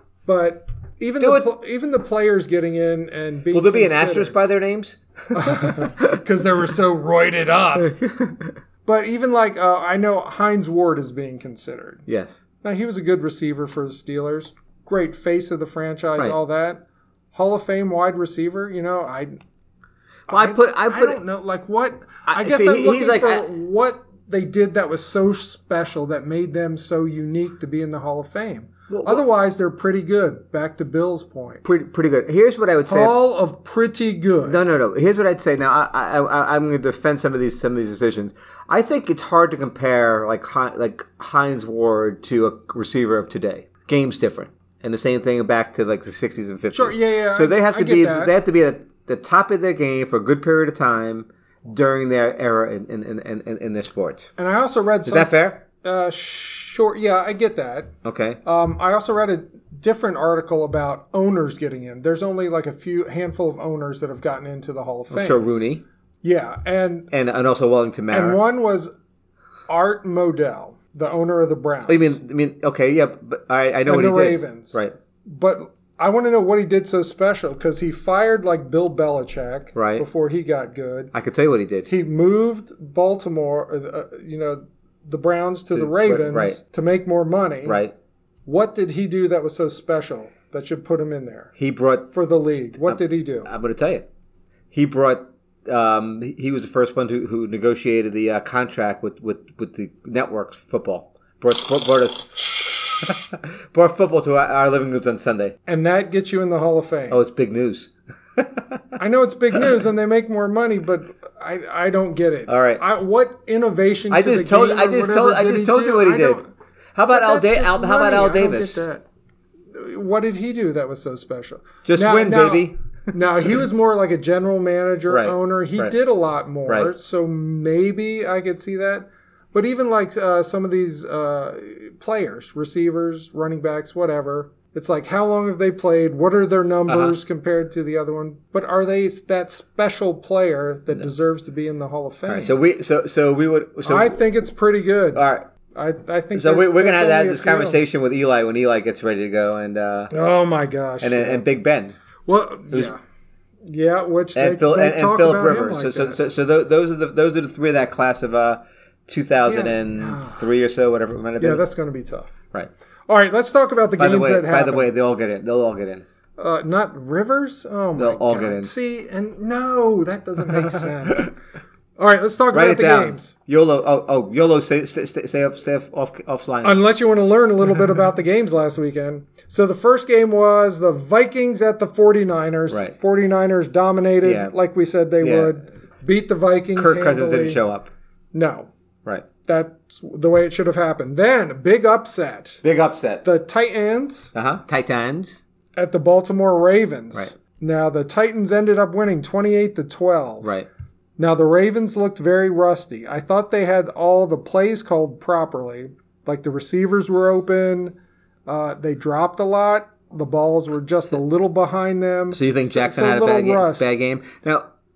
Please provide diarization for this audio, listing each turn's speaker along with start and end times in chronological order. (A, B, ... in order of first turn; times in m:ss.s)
0:00.3-0:04.4 A
0:01.2-0:01.5 B
0:03.5-0:06.2 B
0:05.3-0:08.0 A
0:07.8-0:08.6 B
0:08.8-0:12.0 A
0:12.1-0:12.4 B
0:12.6-0:16.8 A
0:17.3-0:19.4 A
0:20.3-0:21.2 B
0:20.3-0:31.6 A
0:22.3-0:23.4 B
0:28.9-0:29.2 B
0:31.6-0:33.2 B
0:32.9-0:34.6 A
0:34.5-0:54.3 B
0:46.7-0:48.3 A
0:54.4-0:57.9 A
0:55.0-0:55.6 B
0:58.0-0:58.4 B
0:58.4-1:05.4 A
1:05.1-1:05.8 B
1:06.2-1:07.1 A
1:07.1-1:08.4 B
1:08.1-1:08.9 A
1:09.7-1:12.2 A
1:11.9-1:15.0 B
1:13.9-1:14.8 A
1:15.3-1:21.1 A
1:19.8-1:20.0 B
1:21.1-1:21.9 B
1:21.9-1:27.8 A
1:25.7-1:26.6 B
1:27.6-1:27.9 B
1:28.5-1:31.5 A
1:31.6-1:32.1 B
1:32.1-1:33.5 A
1:32.8-1:34.1 B
1:34.7-1:42.3 B
1:42.9-1:45.5 B
1:45.7-1:47.2 A
1:47.1-1:49.0 B
1:49.0-1:56.5 A
1:52.5-1:52.8 B
1:54.1-1:56.4 B
1:57.0-1:58.9 B
1:57.1-1:59.0 A
1:59.7-2:22.6 A
2:01.8-2:02.8 B
2:05.1-2:06.0 B
2:16.9-2:17.2 B
2:22.3-2:24.2 B
2:23.8-2:27.8 A
2:25.1-2:25.5 B
2:26.3-2:30.1 B
2:30.1-2:31.4 A
2:31.0-2:32.0 B
2:32.3-2:33.0 A
2:33.7-2:36.2 A
2:34.4-2:41.6 B
2:39.4-2:40.4 A
2:41.4-2:42.4 A
2:43.1-2:44.9 A
2:44.0-2:46.0 B
2:46.4-2:51.3 A
2:48.0-2:48.7 B
2:50.5-2:50.8 B
2:52.0-2:53.3 A
2:52.5-2:56.8 B
2:56.6-3:07.6 A
3:04.2-3:04.5 B
3:05.2-3:05.5 B
3:06.8-3:07.9 B
3:08.3-3:08.7 A
3:09.4-3:12.6 A
3:12.6-3:13.2 B
3:13.2-3:14.3 A
3:14.4-3:15.4 B
3:15.8-3:20.5 A
3:20.4-3:20.7 B
3:21.2-3:27.9 A
3:28.5-3:33.9 A
3:32.3-3:34.7 B